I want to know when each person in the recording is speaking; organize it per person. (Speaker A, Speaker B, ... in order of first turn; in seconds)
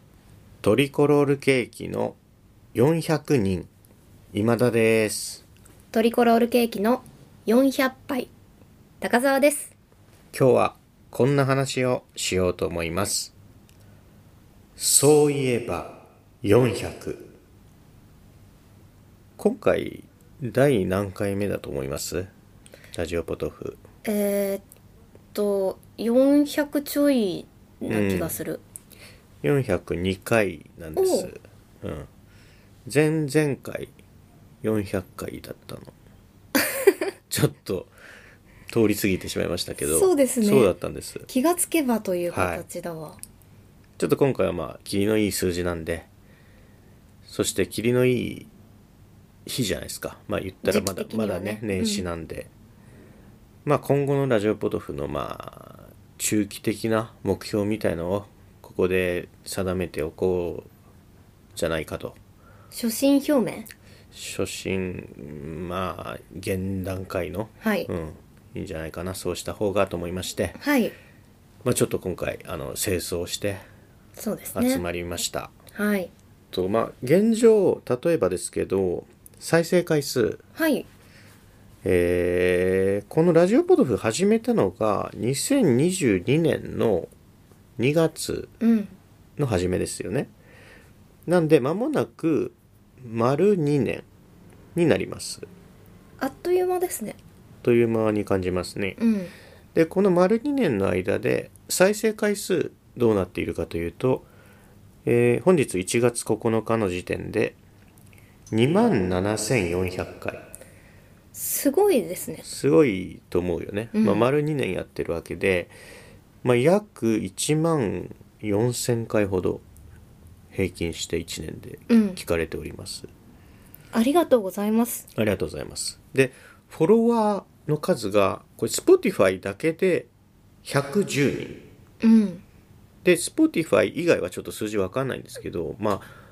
Speaker A: 0.6-2.2, 2.7-3.7, 4.3-5.4, 10.3-13.3, 14.8-17.3, 19.4-22.3, 22.9-23.8, 27.9-28.4, 29.4-32.1, 32.9-33.9, 34.6-35.9, 37.3-37.9, 38.7-41.3, 42.3-42.6, 44.0-46.1, 47.2-48.5, 49.5-52.5, 53.6-60.7, 61.6-62.2, 64.1-70.6, 71.6-73.6, 74.5-75.5, 76.5-80.4, 81.8-87.1, 87.8-88.5, 89.4-90.3, 91.3-94.1, 94.8-95.5, 97.6-99.0, 99.8-104.3, 105.0-107.6, 108.5-110.5, 112.4-115.7, 116.4-119.6, 120.5-123.1, 125.2-130.1, 130.7-131.6, 133.0-136.1
Speaker B: 5.9-8.3, 9.0-9.7, 24.1-24.6, 25.3-28.6, 31.0-31.3, 39.8-40.7, 41.3-43.2, 50.6-52.0, 62.7-63.7, 67.6-67.9, 70.6-71.0, 74.2-74.8, 75.7-76.1, 80.6-80.9, 88.6-88.9, 96.2-97.2, 99.0-99.3, 111.3-112.5, 114.0-114.2, 121.9-122.2, 123.9-125.1, 132.0-132.4